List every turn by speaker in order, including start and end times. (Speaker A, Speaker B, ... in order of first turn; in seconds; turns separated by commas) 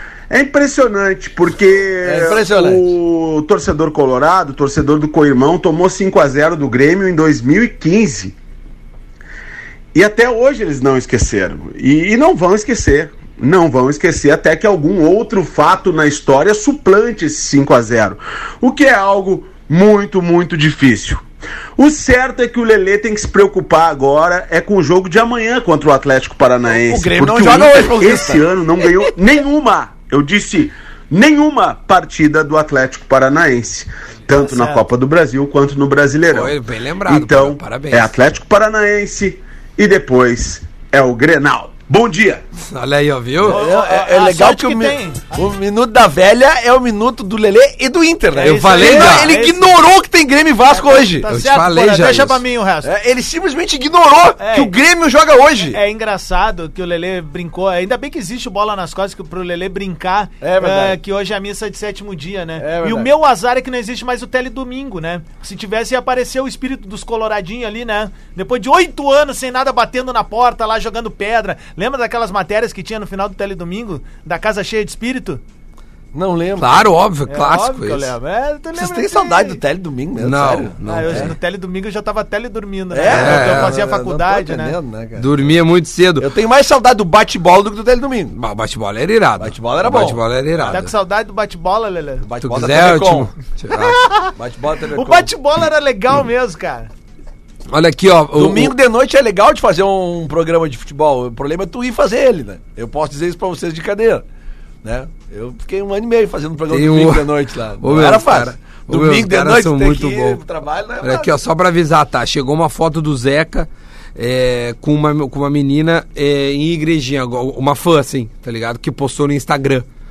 Speaker A: 0.3-8.3, Speaker B: 2.0-2.9, Speaker A: 9.9-21.2, Speaker A: 21.8-42.4, Speaker B: 26.7-28.4, Speaker C: 34.3-34.8, Speaker D: 36.3-38.1, Speaker D: 42.6-43.6, Speaker B: 43.4-51.3, Speaker C: 43.5-45.3, Speaker C: 48.3-49.8, Speaker D: 48.4-49.3, Speaker C: 50.8-52.9, Speaker D: 51.3-52.4, Speaker B: 52.8-55.8, Speaker C: 54.4-54.7, Speaker C: 55.6-75.4, Speaker B: 60.4-61.0, Speaker B: 62.6-63.1, Speaker B: 76.1-76.8, Speaker D: 76.6-78.1, Speaker C: 77.3-79.6, Speaker B: 78.8-81.3, Speaker D: 80.2-81.3, Speaker C: 80.8-84.8, Speaker B: 82.9-85.5, Speaker D: 83.1-83.7, Speaker D: 85.2-86.3, Speaker B: 86.2-88.4, Speaker D: 88.3-90.9, Speaker B: 89.4-90.9, Speaker C: 90.7-92.3, Speaker B: 92.2-93.3, Speaker D: 92.4-94.0, Speaker C: 93.7-94.3, Speaker B: 94.3-95.3, Speaker C: 94.9-96.9, Speaker D: 97.7-98.7, Speaker B: 98.3-104.2, Speaker B: 104.8-111.4, Speaker D: 106.7-110.4, Speaker D: 111.0-119.9